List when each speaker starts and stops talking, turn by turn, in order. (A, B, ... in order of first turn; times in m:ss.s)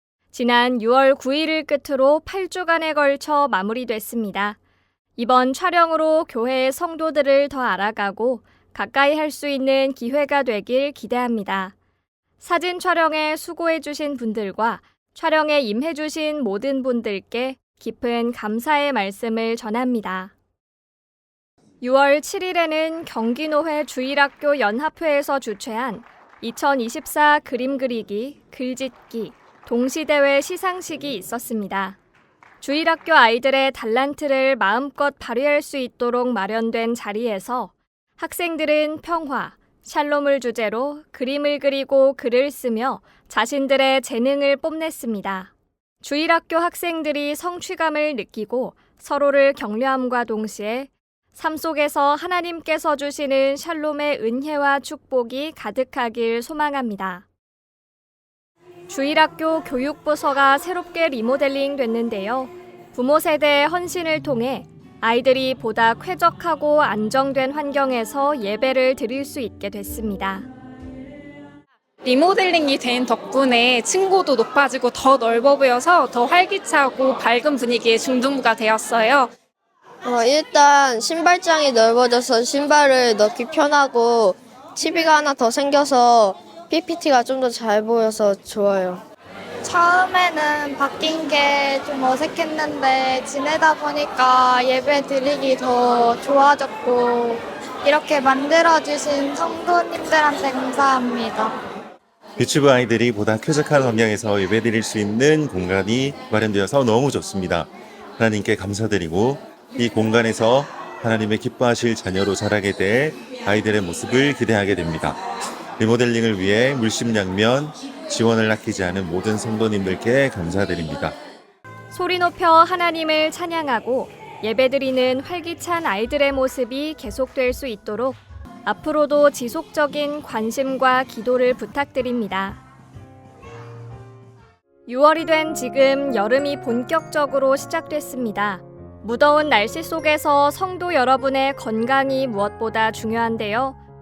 0:00.3-0:04.6 A
0:05.2-0:11.7 A
0:12.4-0:20.3 A
0:21.8-0:32.0 A
0:32.6-0:45.5 A
0:46.0-0:57.2 A
0:58.9-1:10.5 A
1:12.0-1:19.3 B
1:20.0-1:29.0 C
1:29.6-1:41.5 D
1:42.4-1:55.2 E
1:55.8-2:01.1 E
2:01.9-2:12.6 A
2:14.9-2:23.8 A